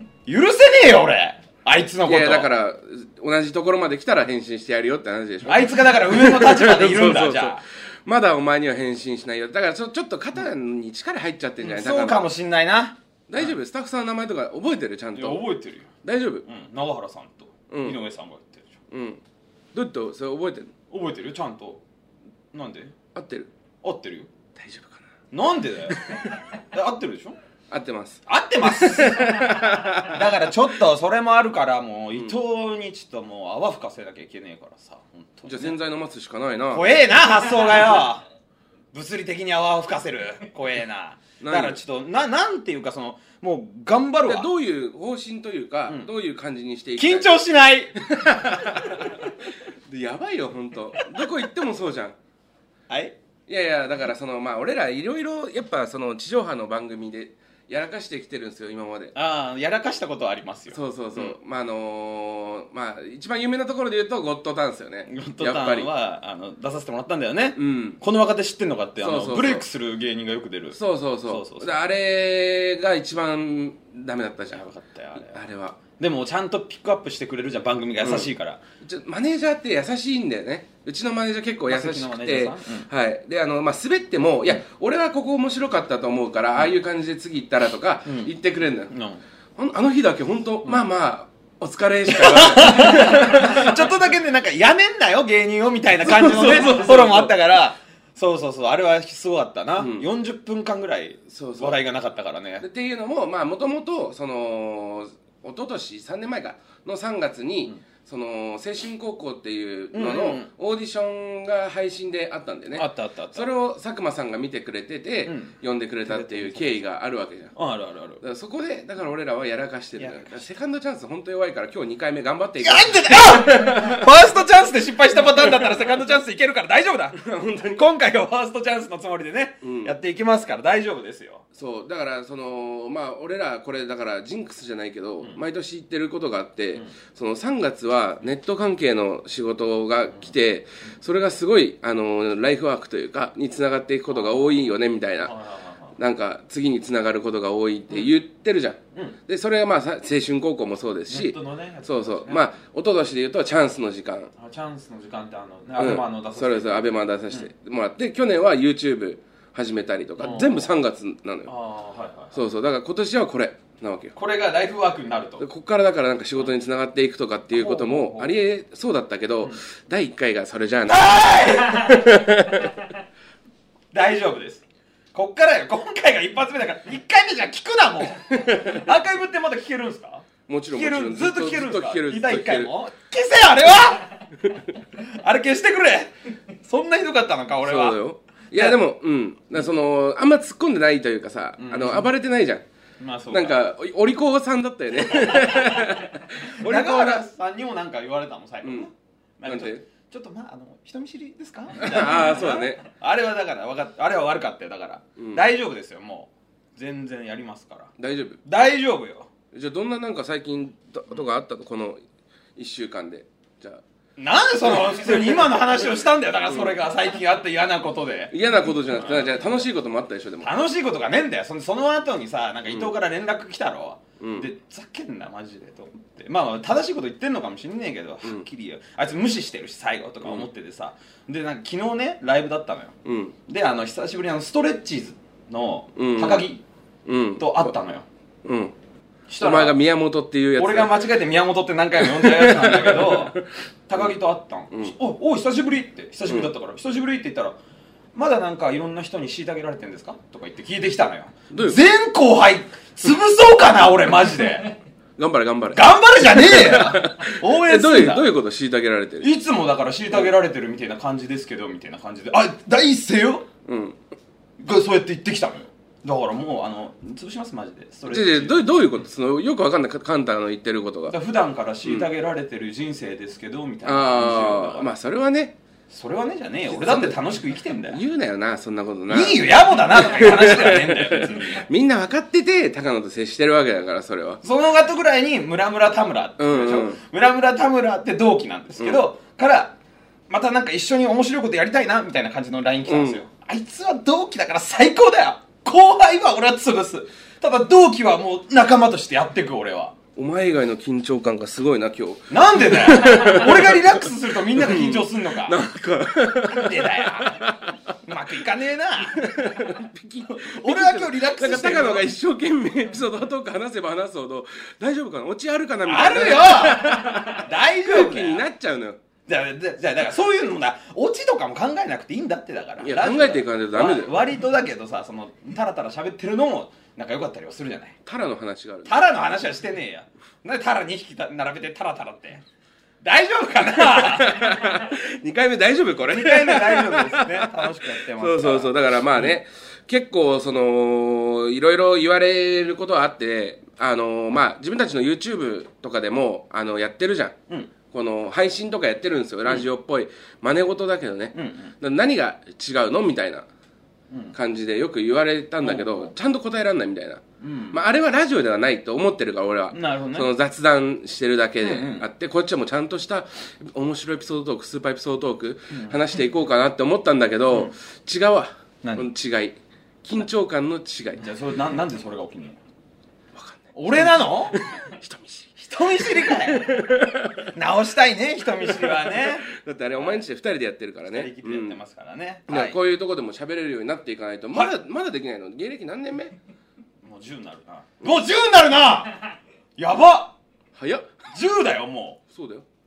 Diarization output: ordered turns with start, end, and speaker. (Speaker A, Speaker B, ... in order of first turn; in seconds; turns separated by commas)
Speaker A: 0.3-2.5, Speaker B: 2.0-12.2, Speaker A: 5.4-7.6, Speaker A: 11.6-13.6, Speaker B: 13.3-15.5, Speaker A: 15.2-15.9, Speaker B: 16.0-16.5, Speaker A: 16.5-18.8, Speaker B: 17.7-18.0, Speaker B: 18.9-19.2, Speaker B: 19.7-20.7, Speaker A: 20.9-21.8, Speaker A: 22.5-22.9, Speaker B: 23.1-23.5, Speaker A: 23.8-24.3, Speaker B: 24.6-25.1, Speaker A: 25.3-27.4, Speaker B: 25.9-26.4, Speaker B: 27.7-30.2, Speaker A: 28.3-35.8, Speaker B: 35.5-36.9, Speaker A: 36.7-38.2, Speaker A: 38.9-44.5, Speaker B: 41.4-41.8, Speaker B: 44.2-47.4, Speaker A: 47.0-48.0, Speaker B: 48.0-52.2, Speaker A: 51.0-51.3, Speaker A: 52.9-53.1, Speaker B: 53.5-59.1, Speaker A: 59.1-61.4, Speaker B: 60.7-65.9, Speaker A: 65.1-71.8, Speaker B: 67.6-68.0, Speaker B: 69.0-69.7, Speaker B: 70.7-74.6, Speaker A: 74.5-75.4, Speaker B: 75.2-75.8, Speaker A: 76.0-78.6, Speaker B: 78.0-78.3, Speaker B: 78.8-88.9, Speaker A: 81.7-82.9, Speaker A: 88.1-88.3, Speaker A: 88.9-89.2, Speaker B: 89.6-93.9, Speaker A: 92.1-102.7, Speaker B: 96.0-97.5, Speaker B: 99.8-100.1, Speaker B: 101.3-101.8, Speaker B: 102.6-117.5, Speaker A: 109.9-110.5, Speaker A: 112.8-113.5, Speaker A: 115.2-116.8, Speaker A: 117.5-118.2, Speaker B: 118.2-124.0, Speaker A: 120.0-120.4, Speaker A: 122.6-127.2, Speaker B: 127.2-127.9, Speaker A: 127.8-131.4, Speaker B: 129.6-129.9, Speaker B: 131.6-145.3, Speaker A: 144.1-144.7, Speaker A: 145.2-145.9, Speaker B: 146.0-154.3, Speaker A: 151.1-152.5, Speaker A: 154.4-157.5, Speaker B: 155.8-161.5, Speaker A: 160.2-160.7, Speaker A: 161.5-162.4, Speaker B: 162.3-164.2, Speaker A: 164.2-165.5, Speaker B: 165.4-172.9, Speaker A: 167.5-168.4, Speaker A: 170.9-172.1, Speaker A: 173.9-184.2, Speaker B: 178.4-178.8, Speaker B: 180.5-182.7, Speaker A: 184.9-188.0, Speaker B: 187.6-192.7, Speaker A: 188.5-188.8, Speaker A: 191.6-192.1, Speaker A: 193.0-193.6, Speaker B: 193.3-197.2, Speaker A: 195.1-207.9, Speaker B: 198.6-198.9, Speaker B: 199.5-199.8, Speaker B: 201.8-202.8, Speaker B: 205.2-205.4, Speaker B: 208.0-208.4, Speaker A: 208.4-209.3, Speaker B: 209.5-212.0, Speaker B: 212.6-213.8, Speaker A: 214.2-219.7, Speaker B: 214.8-215.6, Speaker B: 216.5-216.8, Speaker B: 218.3-220.5, Speaker A: 220.4-232.9, Speaker B: 222.7-222.9, Speaker B: 224.2-224.5, Speaker B: 233.1-233.3, Speaker A: 233.5-236.6, Speaker B: 235.9-236.5, Speaker B: 237.1-237.8, Speaker A: 237.4-238.1, Speaker B: 238.4-238.7, Speaker A: 239.3-239.8, Speaker B: 239.4-241.1, Speaker A: 240.6-247.6, Speaker B: 242.0-243.5, Speaker A: 248.1-254.7, Speaker B: 251.5-251.8, Speaker B: 255.2-259.3, Speaker A: 255.7-258.3, Speaker A: 259.2-263.5, Speaker B: 263.7-264.0, Speaker A: 264.6-268.6, Speaker B: 268.1-271.2, Speaker A: 271.1-274.9, Speaker B: 273.9-275.6, Speaker A: 275.9-278.0, Speaker B: 276.7-284.4, Speaker A: 279.1-281.6, Speaker A: 284.4-289.8, Speaker B: 286.4-287.0, Speaker A: 290.3-300.0, Speaker B: 292.9-293.2, Speaker B: 300.2-307.9, Speaker A: 302.3-305.6, Speaker A: 306.4-307.4, Speaker A: 308.0-309.7, Speaker B: 309.1-319.0, Speaker A: 310.3-312.1, Speaker A: 315.9-318.5, Speaker A: 319.3-328.0, Speaker B: 322.8-324.2, Speaker B: 328.1-329.0, Speaker A: 328.9-332.4, Speaker A: 333.0-334.6, Speaker B: 333.6-353.5, Speaker A: 336.1-339.4, Speaker A: 351.3-351.7, Speaker B: 354.3-371.3, Speaker A: 355.6-356.1, Speaker A: 357.4-357.8, Speaker A: 359.7-360.3, Speaker A: 361.6-362.1, Speaker A: 365.7-366.0, Speaker A: 368.8-369.1, Speaker A: 371.2-372.6, Speaker B: 373.4-377.5, Speaker A: 373.8-374.6, Speaker A: 375.6-376.8, Speaker A: 377.5-380.3, Speaker B: 378.8-381.8, Speaker A: 381.1-382.8, Speaker B: 382.5-386.4, Speaker A: 387.0-390.4, Speaker B: 390.8-391.2, Speaker A: 391.3-392.2, Speaker B: 392.3-392.6